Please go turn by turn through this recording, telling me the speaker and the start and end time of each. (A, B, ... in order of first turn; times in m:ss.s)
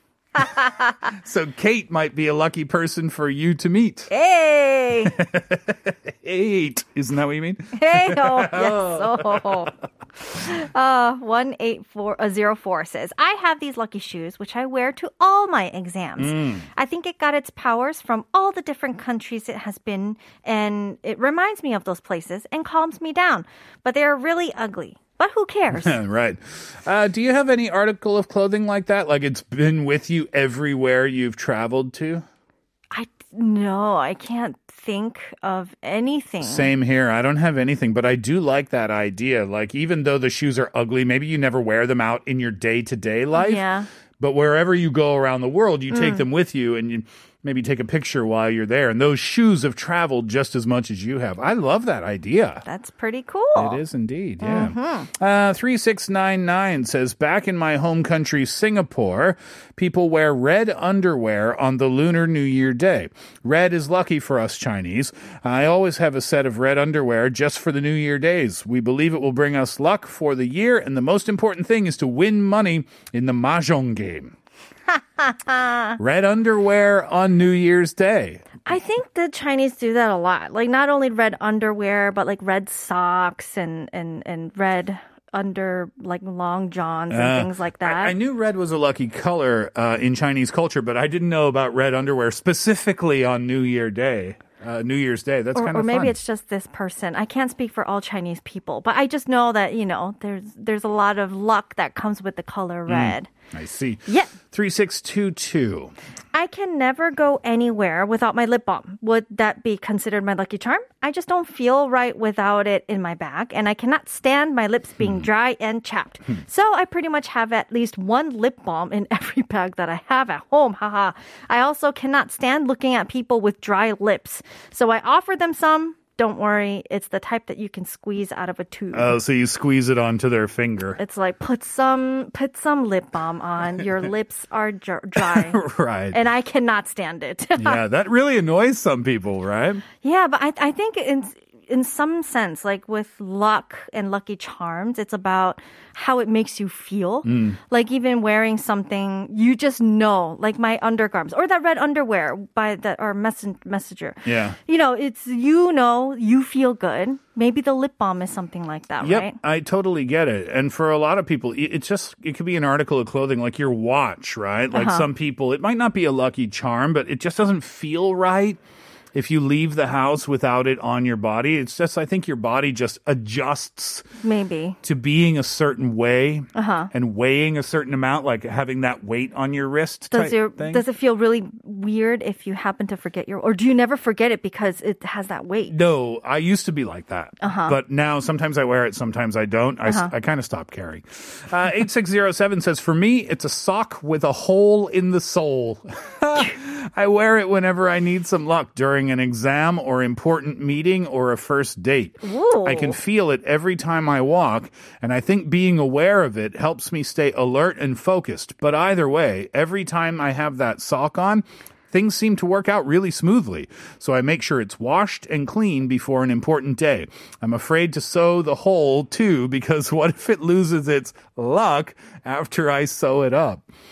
0:00.4-0:00.8 A
0:01.0-0:04.1 B
0:04.1-0:05.2 A
0:05.1-0:09.7 B
0:07.8-0:26.0 A
0:16.2-0:16.7 B
0:25.7-0:32.3 B
0:32.9-0:36.7 A
0:36.4-0:43.6 B
0:43.4-0:43.9 A
0:44.2-0:52.6 B
0:45.9-0:46.2 A
0:52.7-0:53.8 A
0:53.6-1:14.3 B
0:54.4-0:55.1 A
1:14.9-1:16.0 A
1:16.0-1:18.5 B
1:18.7-1:28.2 A
1:27.1-1:36.2 B
1:35.6-1:43.3 A
1:42.9-1:45.9 B
1:44.1-1:44.3 A
1:46.3-2:09.2 A
1:55.0-1:55.3 B
2:08.9-2:11.0 B
2:11.0-2:15.6 A
2:15.2-2:16.2 B
2:16.1-2:17.8 A
2:17.6-2:19.8 B
2:20.0-2:39.4 A
2:27.2-2:27.6 B
2:34.2-2:34.6 B
2:39.0-2:48.6 B
2:44.7-2:45.1 A
2:49.1-2:54.1 B
2:54.2-2:54.8 A
2:54.8-3:00.8 B
2:56.6-2:56.9 A
3:00.1-3:05.8 A
3:05.7-3:43.6 B
3:07.4-3:07.8 A
3:09.8-3:10.1 A
3:22.2-3:23.0 A